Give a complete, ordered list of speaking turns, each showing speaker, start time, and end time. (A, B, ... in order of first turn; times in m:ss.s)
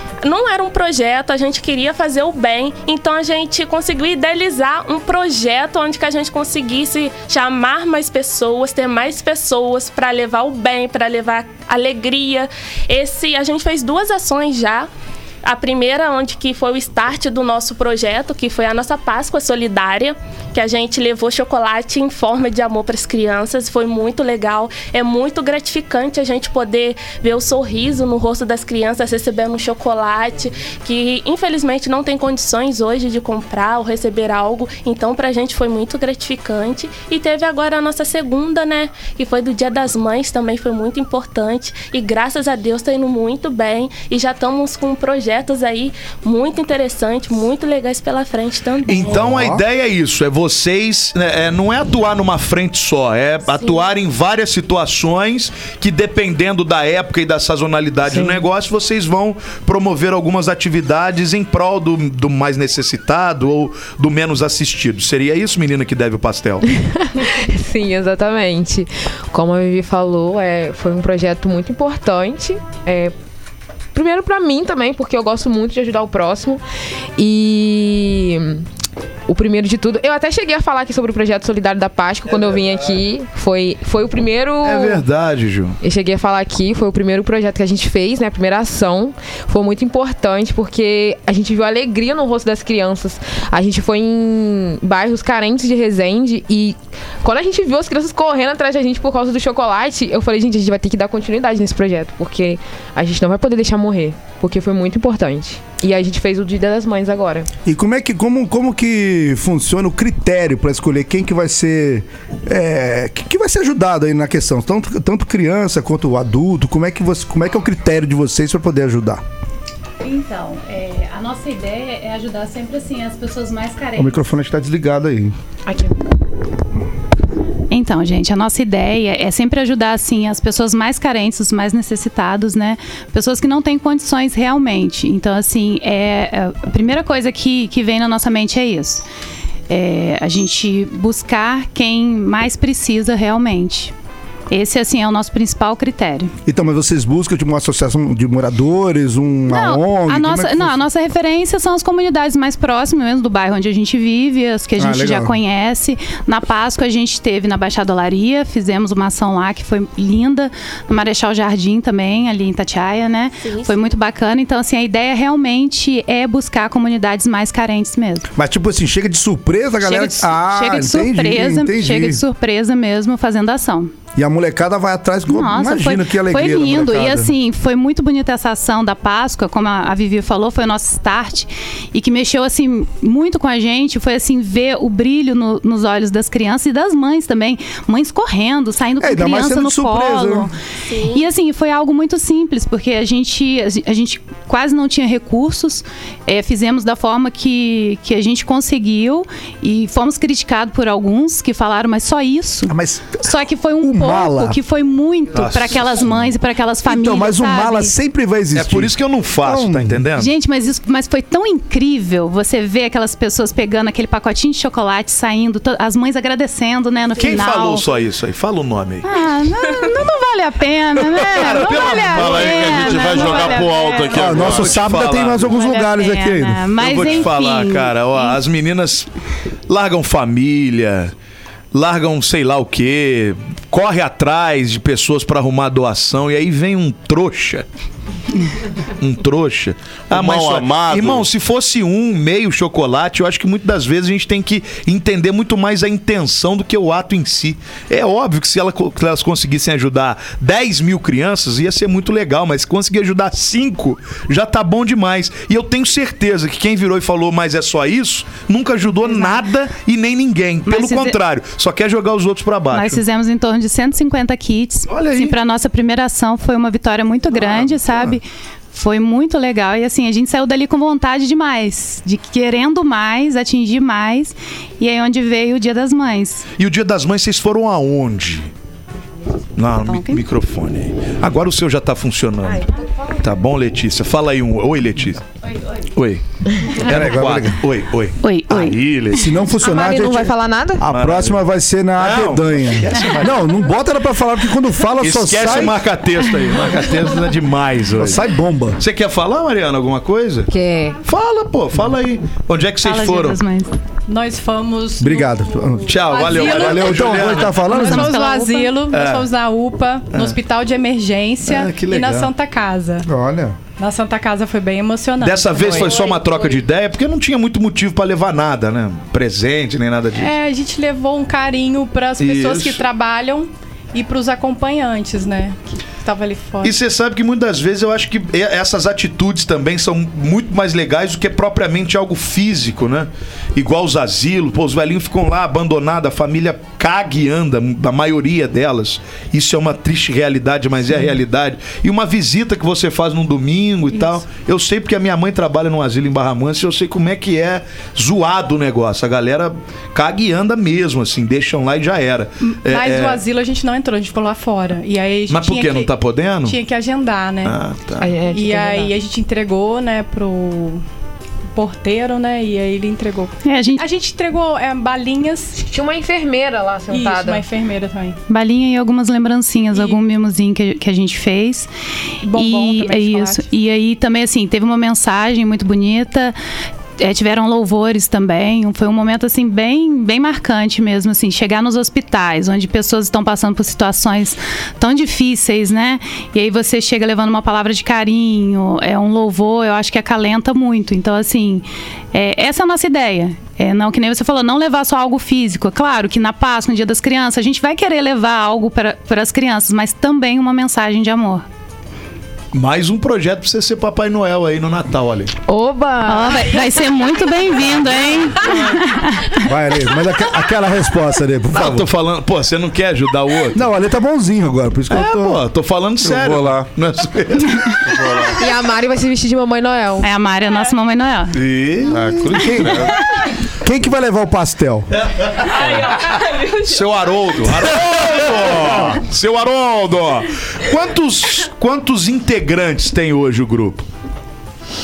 0:00.2-0:14.9 A
0:15.4-0:49.2 A
0:48.9-1:06.7 B
0:49.1-0:49.6 C
0:58.1-0:58.4 D
1:06.8-1:13.1 D
1:13.9-1:16.6 D
1:17.2-1:18.7 D
1:19.3-1:25.1 D
1:24.6-1:25.8 B
1:25.8-1:47.5 D
1:47.7-1:59.2 C
2:00.0-2:04.2 E
2:04.0-2:05.3 C
2:05.7-2:06.0 D
2:07.7-2:19.0 E
2:19.7-2:23.9 E
2:24.5-2:26.3 E
2:26.5-2:30.8 C
2:29.5-2:48.3 E
2:34.8-2:35.4 C
2:43.4-2:43.9 A
2:48.4-2:52.2 C
2:49.8-2:53.9 E
2:54.2-2:57.3 C
2:55.3-3:10.5 E
3:09.0-3:10.5 C
3:10.9-3:11.2 A
3:11.1-3:27.9 E
3:22.7-3:24.6 C
3:25.3-3:26.3 B
3:26.9-3:30.1 C
3:28.5-3:30.3 B
3:30.2-3:37.9 E
3:37.2-3:39.1 B
3:39.0-3:44.2 E
3:41.3-3:43.6 B
3:41.6-3:45.0 F
3:44.1-3:46.7 C
3:44.2-3:45.5 B
3:45.3-3:48.3 E
3:46.8-3:49.1 B
3:49.7-3:51.1 B
3:51.7-3:57.7 B
3:59.0-4:23.0 B
4:00.1-4:01.3 F
4:20.7-4:21.2 E
4:22.7-4:36.4 E
4:24.9-4:25.4 B
4:27.4-4:28.1 B
4:36.6-4:38.5 B
4:39.6-4:42.7 B
4:39.8-4:40.2 E
4:43.2-4:45.2 B
4:45.9-4:46.2 B
4:46.8-4:49.4 B
4:46.8-4:47.6 C
4:48.2-4:48.8 E
4:49.1-4:55.8 C
4:49.6-4:50.8 D
4:50.9-4:51.4 B
4:52.0-4:53.6 B
4:55.0-4:58.2 B
4:58.0-4:58.8 C
4:58.8-5:00.5 B
5:00.5-5:01.0 D
5:01.1-5:03.4 B
5:02.8-5:03.7 E
5:04.1-5:13.1 G
5:05.0-5:08.1 C
5:05.9-5:07.6 B
5:07.6-5:08.8 E
5:08.9-5:09.3 B
5:10.1-5:10.4 B
5:11.4-5:12.3 B
5:13.0-5:13.6 C
5:13.8-5:15.9 G
5:15.2-5:20.4 B
5:15.6-5:16.6 D
5:20.1-5:26.8 G
5:22.2-5:22.8 B
5:26.6-5:53.2 B
5:52.4-5:57.6 G
5:55.3-5:56.6 B
5:57.4-5:58.1 B
5:58.0-5:58.9 D
5:58.3-6:00.8 G
6:01.6-6:05.6 G
6:03.4-6:03.8 E
6:05.7-6:07.4 D
6:06.9-6:08.2 G
6:08.3-6:11.7 E
6:09.7-6:10.0 G
6:12.2-6:13.4 G
6:12.3-6:16.4 E
6:17.0-6:41.4 E
6:42.5-6:45.3 B
6:45.5-6:46.6 D
6:46.0-6:49.4 E
6:49.4-6:51.9 C
6:51.5-6:53.6 B
6:53.5-6:55.4 C
6:54.9-6:58.1 B
6:56.0-6:56.7 F
6:57.9-6:58.4 F
6:58.4-7:00.1 D
7:00.0-7:01.4 E
7:01.3-7:02.5 B
7:01.8-7:02.9 F
7:02.4-7:02.7 C
7:03.6-7:04.9 C
7:05.0-7:13.9 B
7:05.5-7:06.8 A